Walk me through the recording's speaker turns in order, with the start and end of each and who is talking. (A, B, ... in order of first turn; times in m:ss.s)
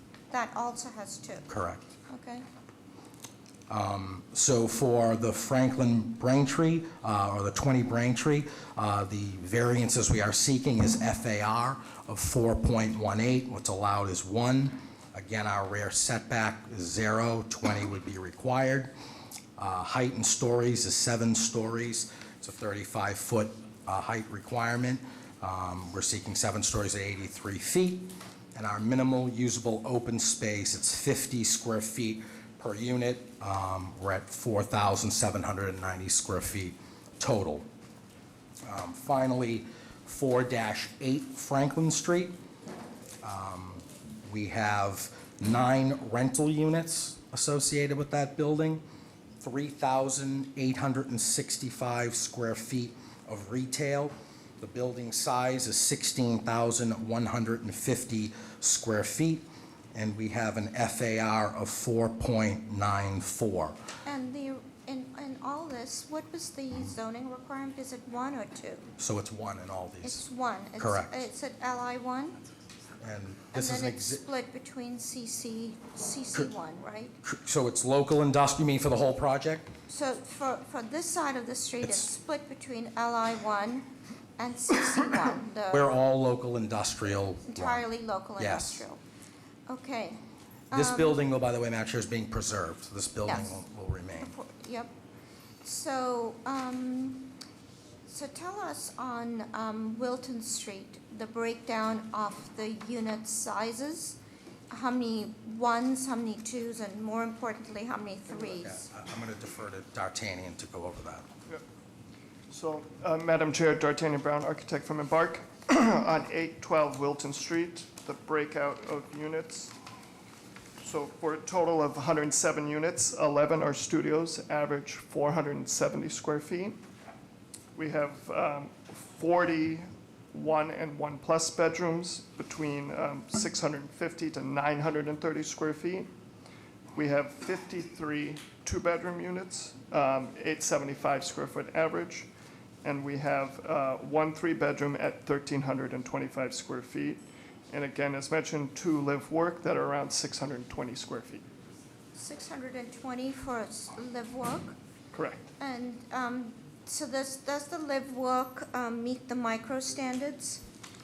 0:00.3-0:01.5 A
0:01.5-0:01.9 B
0:02.1-0:02.4 A
0:03.7-0:18.9 B
0:19.6-0:37.7 B
0:38.6-0:42.3 B
0:43.2-0:48.8 B
0:49.4-1:03.8 B
1:04.0-1:08.9 A
1:09.0-1:10.2 B
1:10.0-1:12.4 A
1:10.8-1:11.2 B
1:13.0-1:14.2 B
1:13.5-1:17.2 A
1:17.2-1:19.7 B
1:19.9-1:25.8 A
1:21.8-1:22.1 B
1:25.7-1:27.8 B
1:27.5-1:29.0 A
1:28.4-1:28.8 B
1:29.7-1:30.2 A
1:30.7-1:31.2 A
1:30.7-1:34.3 B
1:33.2-1:33.6 A
1:34.2-1:34.9 A
1:35.6-1:37.4 A
1:38.0-1:44.2 A
1:44.7-1:48.8 A
1:48.3-1:51.2 B
1:52.5-1:59.7 C
2:00.8-2:06.8 C
2:07.7-2:16.1 C
2:16.9-2:22.3 C
2:22.8-2:31.4 C
2:32.1-2:34.8 A
2:35.1-2:35.4 C
2:35.6-2:40.6 A